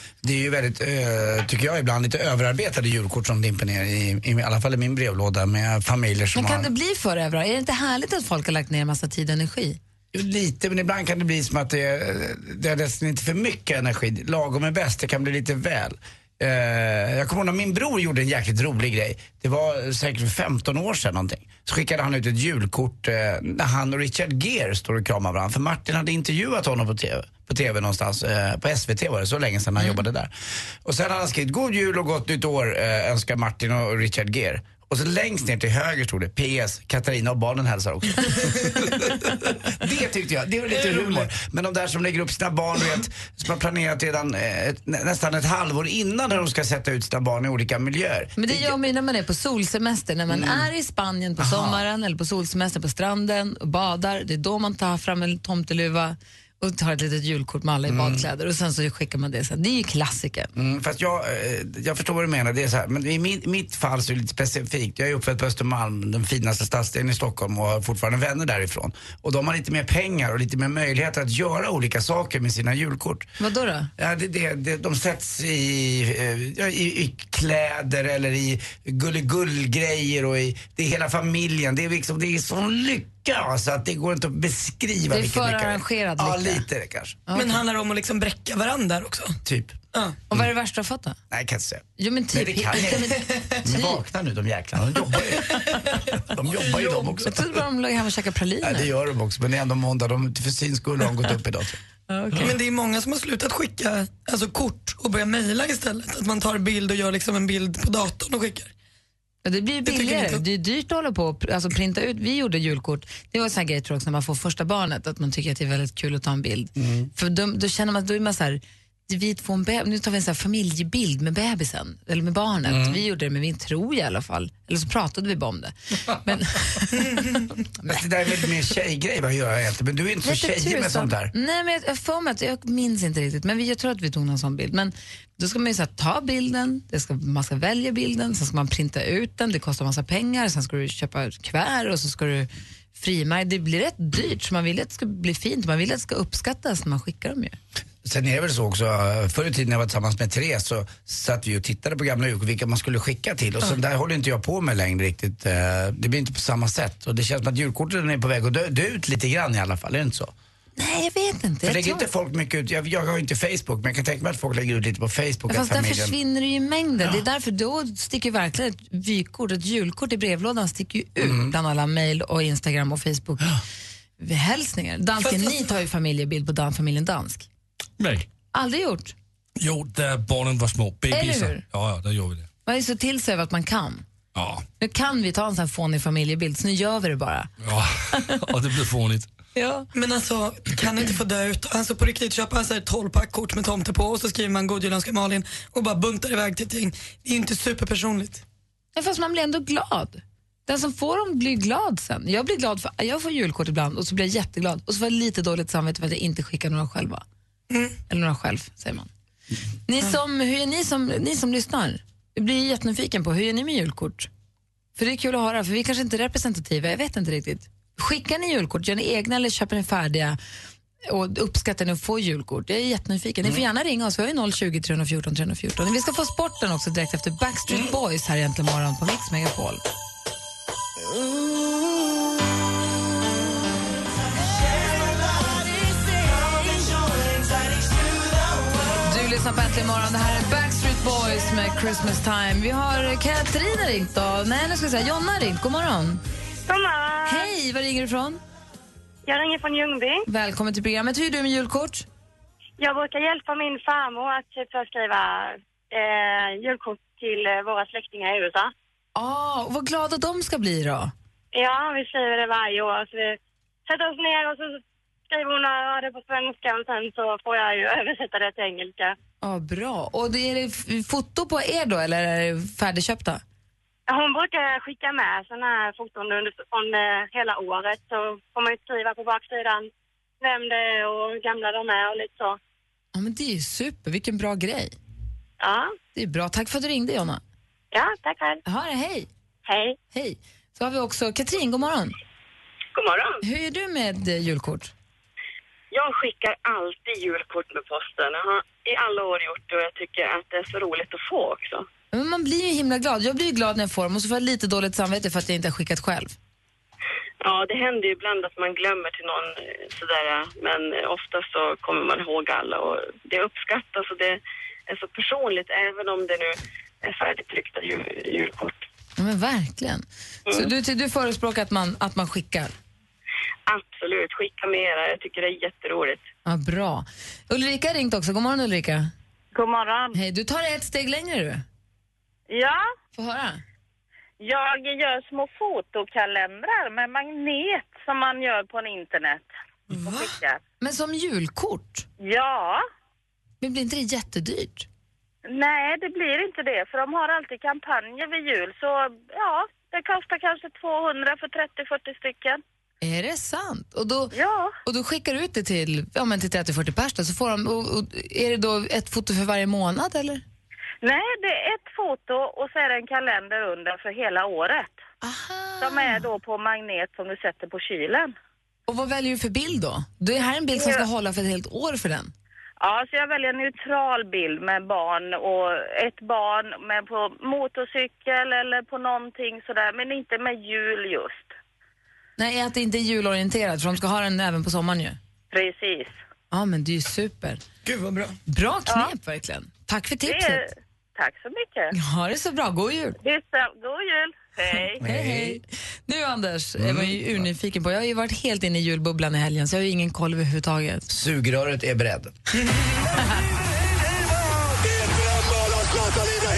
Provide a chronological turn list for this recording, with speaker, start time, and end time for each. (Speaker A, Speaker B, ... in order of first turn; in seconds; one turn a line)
Speaker A: 0.2-6.7
Speaker B: 6.3-9.8
Speaker A: 10.1-30.3
Speaker A: 30.9-48.8
Speaker C: 40.7-41.3
Speaker B: 48.4-60.5
Speaker A: 50.3-50.7
Speaker A: 51.4-51.8
Speaker A: 57.9-58.3
Speaker A: 60.5-73.3
Speaker B: 73.4-73.9
Speaker A: 74.0-87.2
Speaker B: 85.1-86.7
Speaker B: 87.3-87.6
Speaker C: 87.3-89.4
Speaker A: 89.4-89.8
Speaker B: 90.3-91.2
Speaker A: 91.3-97.5
Speaker B: 92.0-94.0
Speaker C: 95.5-97.2
Speaker B: 97.2-98.9
Speaker A: 98.6-101.8
Speaker B: 102.1-102.6
Speaker C: 102.4-108.7
Speaker B: 109.4-127.9
Speaker C: 109.9-110.4
Speaker A: 116.8-117.1
Speaker A: 122.7-123.0
Speaker A: 127.8-131.3
Speaker B: 130.2-147.6
Speaker A: 148.0-160.3
Speaker B: 160.8-162.1
Speaker A: 161.7-166.2
Speaker B: 165.5-173.6
Speaker A: 171.2-171.6
Speaker B: 174.2-177.5
Speaker C: 175.2-175.6
Speaker D: 178.0-178.3
Speaker B: 178.5-179.2
Speaker D: 179.6-182.5
Speaker B: 181.1-181.6
Speaker B: 182.7-184.1
Speaker D: 184.3-184.7
Speaker B: 184.8-187.5
Speaker D: 187.6-189.3
Speaker B: 189.6-189.9
Speaker C: 189.9-198.4
Speaker B: 199.0-207.2
Speaker C: 207.7-208.0
Speaker B: 208.1-209.1
Speaker B: 209.9-214.3
Speaker B: 215.0-220.4
Speaker B: 221.1-229.8
Speaker B: 239.0-246.2
Speaker E: 246.7-247.5
Speaker B: 247.2-248.4
Speaker E: 249.3-250.2
Speaker B: 250.3-252.1
Speaker E: 252.8-258.7
Speaker B: 259.1-261.1
Speaker E: 261.5-269.2
Speaker B: 269.4-273.4
Speaker E: 274.1-279.9
Speaker E: 280.4-282.6
Speaker B: 283.1-284.9
Speaker E: 285.6-285.9
Speaker B: 286.1-287.4
Speaker E: 287.9-288.6
Speaker B: 288.7-289.3
Speaker E: 289.6-290.0
Speaker B: 290.1-292.1
Speaker F: 292.9-293.4
Speaker B: 293.4-294.9
Speaker F: 295.9-301.9
Speaker B: 302.1-306.4
Speaker F: 307.4-318.8
Speaker B: 319.2-322.7
Speaker F: 323.7-326.3
Speaker B: 326.5-329.1
Speaker G: 329.5-330.2
Speaker B: 330.1-331.6
Speaker G: 332.5-332.9
Speaker B: 333.1-333.6
Speaker G: 334.4-340.6
Speaker B: 340.0-342.1
Speaker G: 342.2-342.9
Speaker B: 343.6-344.9
Speaker G: 345.5-352.6
Speaker B: 353.0-354.3
Speaker G: 354.3-354.8
Speaker B: 354.9-360.4
Speaker G: 361.0-365.0
Speaker B: 365.2-366.3
Speaker G: 365.8-368.3
Speaker B: 368.9-372.3
Speaker G: 370.8-371.1
Speaker G: 372.8-381.5
Speaker B: 382.4-385.2
Speaker G: 385.5-386.2
Speaker B: 386.5-387.6
Speaker C: 387.9-388.4
Speaker B: 388.5-390.7
Speaker G: 388.9-389.1
Speaker G: 390.2-391.9
Speaker B: 391.9-393.2
Speaker G: 393.2-395.0
Speaker B: 395.0-401.1
Speaker A: 395.0-395.6
Speaker A: 396.8-397.4
Speaker A: 401.1-402.4